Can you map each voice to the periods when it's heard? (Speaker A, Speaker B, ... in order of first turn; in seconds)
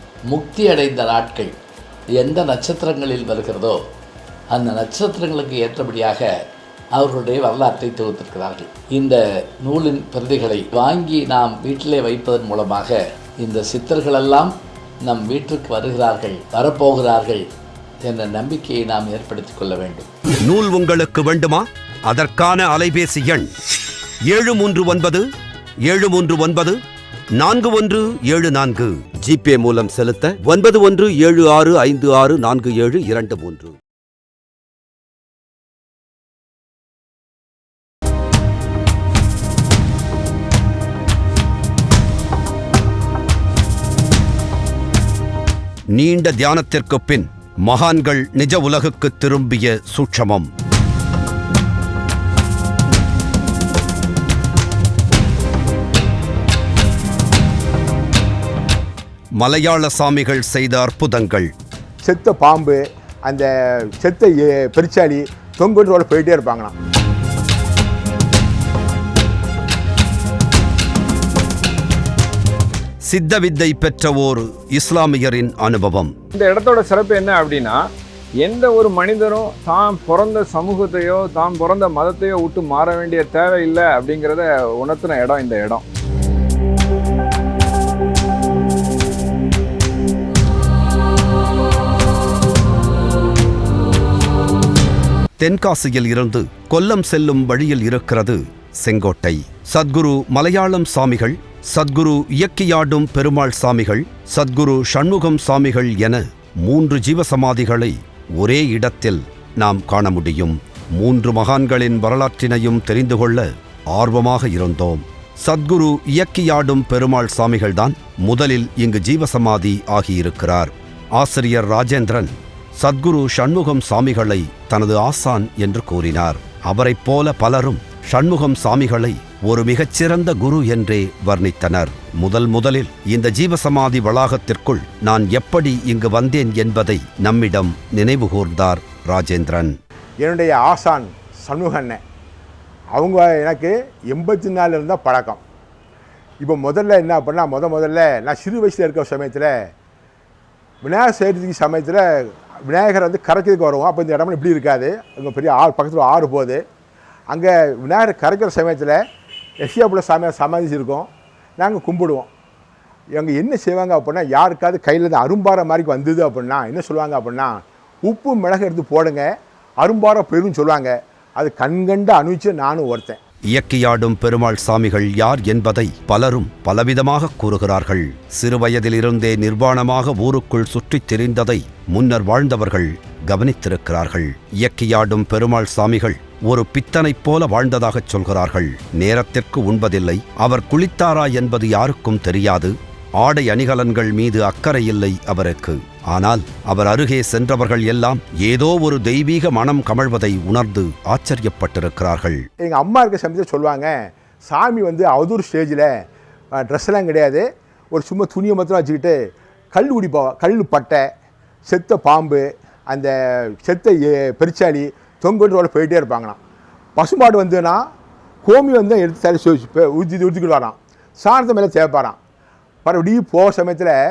Speaker A: 0.3-1.5, 2.2-3.8, 4.5-6.3, 6.9-17.4, 18.0-20.1
Speaker B: 20.4-23.5, 24.3-25.2, 25.9-26.8, 27.4-33.7, 45.9-50.5, 59.4-61.5, 73.0-76.1, 95.4-139.7, 173.5-202.4
Speaker C: 62.0-66.7, 140.2-142.0, 142.9-145.4, 146.4-149.5, 150.8-156.6, 157.3-159.0, 159.6-162.3, 163.1-169.3, 169.8-173.2, 202.6-203.9, 204.4-205.9, 206.6-209.2, 209.7-211.0, 211.7-216.4, 217.0-217.8, 218.4-222.2, 222.8-223.9
Speaker D: 76.3-77.8, 78.4-85.8